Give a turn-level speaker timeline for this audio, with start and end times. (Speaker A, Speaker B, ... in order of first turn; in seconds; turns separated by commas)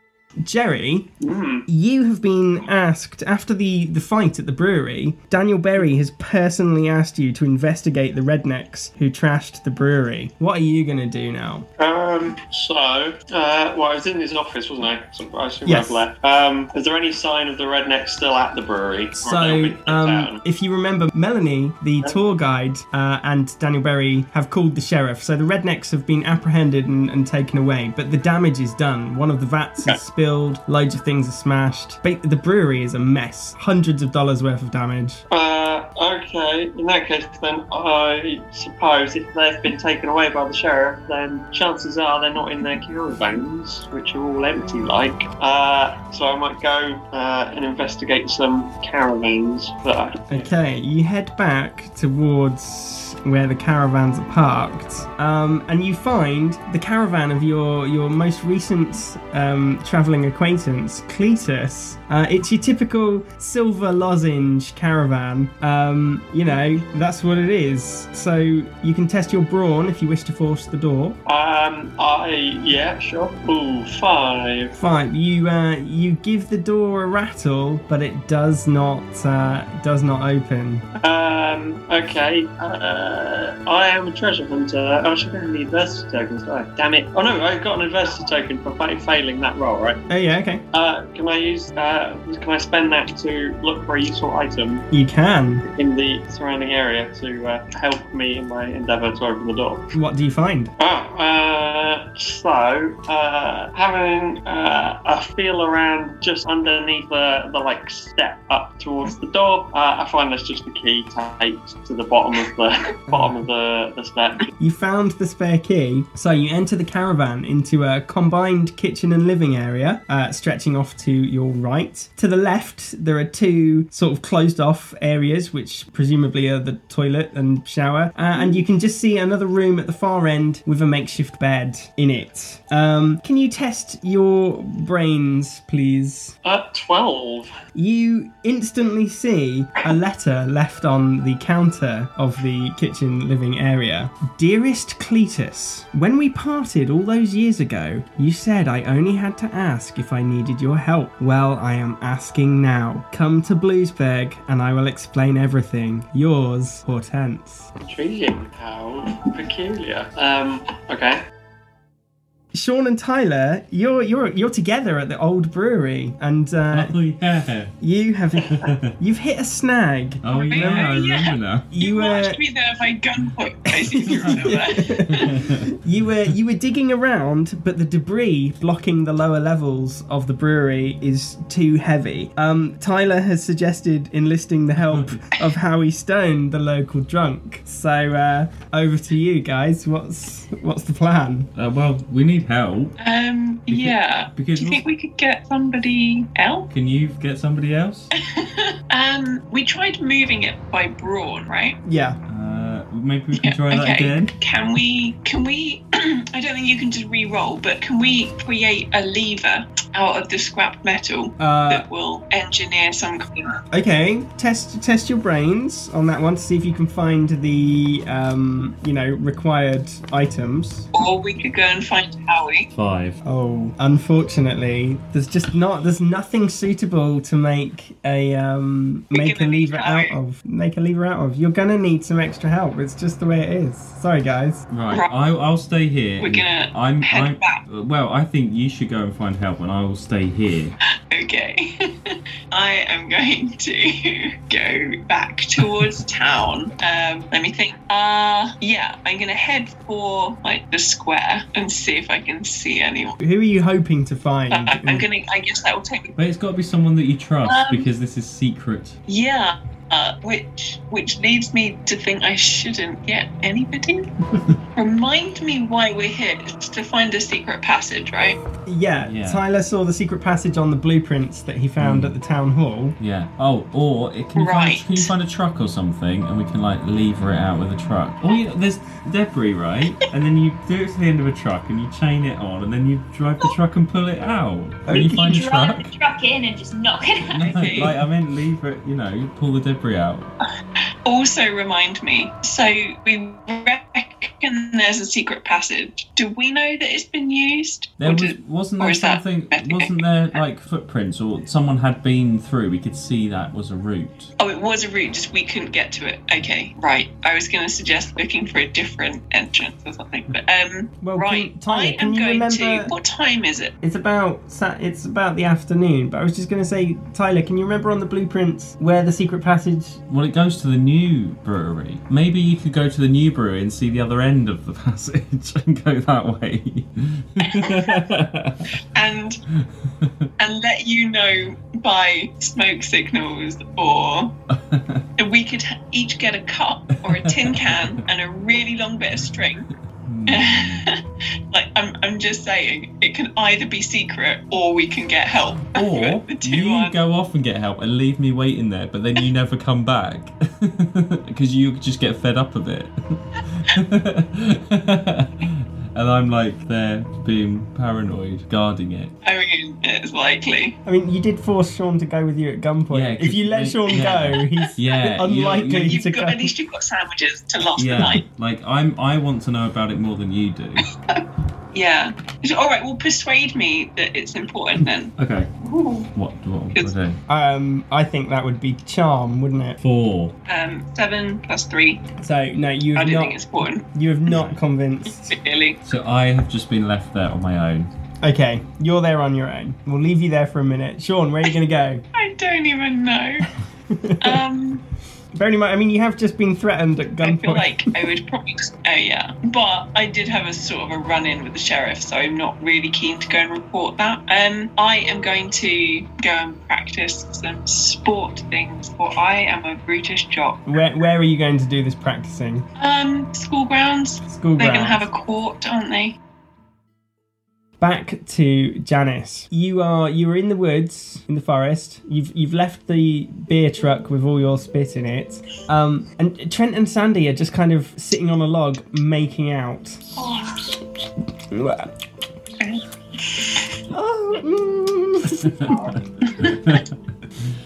Speaker A: 0.4-1.1, Speaker B: 1.2-1.7, Speaker A: 1.7-11.7, Speaker B: 11.8-20.4, Speaker A: 15.7-16.1, Speaker A: 19.2-35.2, Speaker B: 35.3-50.5, Speaker A: 50.3-71.2, Speaker B: 71.3-74.8, Speaker A: 74.8-80.9, Speaker B: 81.0-90.0, Speaker A: 90.1-90.6, Speaker B: 90.7-94.9, Speaker A: 94.9-95.6, Speaker B: 95.7-99.9, Speaker A: 99.9-100.7, Speaker B: 100.8-114.5, Speaker A: 113.1-113.4, Speaker A: 114.6-136.4, Speaker B: 136.4-137.5, Speaker A: 137.8-157.7, Speaker B: 157.8-161.2, Speaker A: 162.5-167.0, Speaker C: 166.7-167.8, Speaker A: 167.8-171.0, Speaker C: 168.5-168.9, Speaker C: 170.2-171.7, Speaker D: 170.3-175.5, Speaker A: 171.7-172.4, Speaker A: 173.8-191.5, Speaker C: 174.1-175.7, Speaker C: 184.8-185.1, Speaker C: 191.6-193.0, Speaker D: 193.0-196.7, Speaker C: 193.7-194.8, Speaker C: 196.7-198.1, Speaker D: 198.3-201.8, Speaker A: 201.8-202.2, Speaker C: 202.3-204.3, Speaker D: 203.3-213.6, Speaker A: 211.4-211.9, Speaker A: 213.7-220.9, Speaker D: 220.9-222.7, Speaker C: 222.7-223.2, Speaker A: 223.2-234.7, Speaker D: 229.1-230.2, Speaker C: 234.7-240.8, Speaker D: 236.2-237.6, Speaker D: 241.1-253.2, Speaker A: 253.2-255.1, Speaker D: 254.5-256.2, Speaker C: 256.2-259.0, Speaker D: 257.4-257.9, Speaker D: 259.1-264.1, Speaker D: 264.8-268.4, Speaker A: 268.7-273.0, Speaker C: 269.1-269.4, Speaker C: 271.8-272.2, Speaker C: 273.0-285.9, Speaker D: 274.4-275.1, Speaker A: 284.9-285.4, Speaker E: 285.0-287.9, Speaker C: 287.3-290.3, Speaker D: 287.5-288.0, Speaker D: 291.1-300.4, Speaker C: 298.0-304.3, Speaker D: 304.4-313.7, Speaker A: 311.0-312.9, Speaker A: 313.8-320.0, Speaker C: 320.1-328.7, Speaker D: 327.4-328.0, Speaker D: 328.9-329.4, Speaker C: 329.6-330.3, Speaker D: 330.4-334.4, Speaker C: 334.5-335.1, Speaker D: 335.2-339.7, Speaker C: 337.1-338.0, Speaker C: 340.0-340.9, Speaker D: 340.3-347.0, Speaker C: 345.7-359.1, Speaker D: 359.2-360.8, Speaker A: 360.9-366.5, Speaker C: 362.9-366.0, Speaker D: 363.9-364.9, Speaker D: 365.8-368.2, Speaker C: 367.8-370.8, Speaker D: 371.1-376.1, Speaker C: 375.2-375.5, Speaker C: 376.1-377.2, Speaker A: 377.3-379.8, Speaker C: 379.8-380.4, Speaker D: 380.5-382.0, Speaker A: 382.2-385.4, Speaker D: 382.9-383.9, Speaker C: 384.3-384.6, Speaker D: 385.2-385.8, Speaker C: 385.9-387.9, Speaker A: 388.2-392.0, Speaker D: 392.1-393.5, Speaker A: 393.9-394.4, Speaker D: 394.2-394.8, Speaker A: 395.4-397.9, Speaker D: 397.2-410.6, Speaker A: 410.7-412.7, Speaker D: 412.8-416.1, Speaker A: 414.3-415.1, Speaker A: 417.8-430.0, Speaker E: 430.2-430.7, Speaker A: 431.5-431.9, Speaker A: 433.9-435.8, Speaker C: 435.4-435.8, Speaker C: 436.4-436.8